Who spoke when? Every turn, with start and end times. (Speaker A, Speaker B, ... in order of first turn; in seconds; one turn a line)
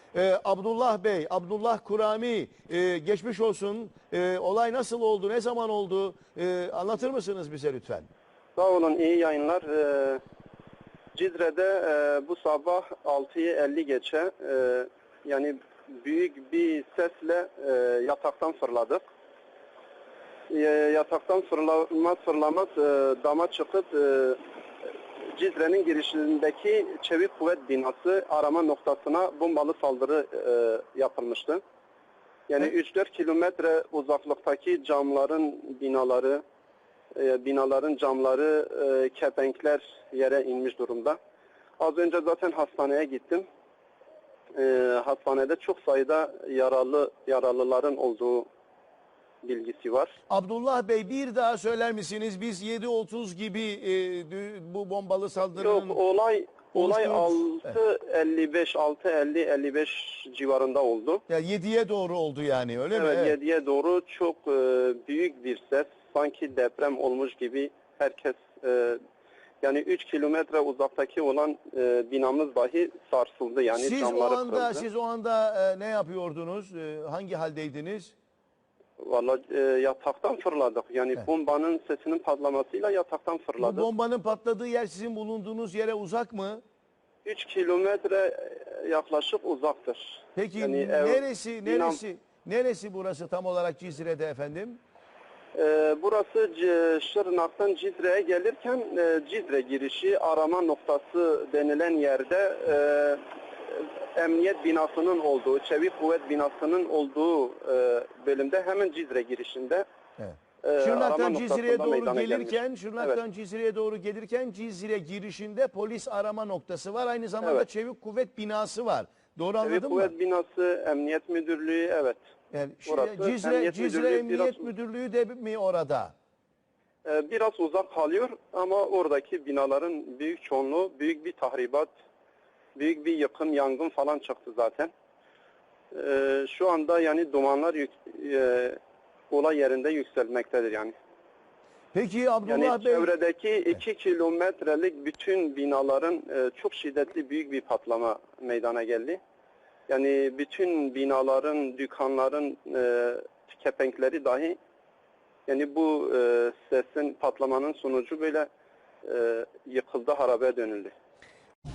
Speaker A: 0.1-8.1
Speaker B: 8.6-10.2
Speaker B: 11.2-19.0
Speaker B: 20.5-24.4
Speaker B: 25.3-31.6
Speaker B: 32.5-36.4
Speaker B: 37.1-41.2
Speaker B: 41.8-43.5
Speaker B: 44.5-48.5
Speaker B: 49.4-50.1
Speaker A: 50.3-56.0
Speaker B: 55.6-61.2
Speaker A: 56.7-57.8
Speaker A: 61.3-63.4
Speaker B: 62.9-69.0
Speaker B: 69.6-74.8
Speaker A: 73.7-78.1
Speaker B: 79.0-83.9
Speaker A: 83.6-86.6
Speaker B: 87.2-92.0
Speaker A: 90.3-94.8
Speaker B: 95.5-109.8
Speaker A: 110.2-120.1
Speaker B: 110.6-113.2
Speaker B: 119.6-122.2
Speaker A: 122.5-126.1
Speaker B: 122.9-124.7
Speaker B: 127.0-131.9
Speaker B: 132.8-134.9
Speaker B: 135.9-138.8
Speaker B: 139.3-140.9
Speaker A: 141.9-143.1
Speaker B: 142.5-149.2
Speaker B: 149.9-154.6
Speaker B: 155.5-158.5
Speaker B: 159.0-160.9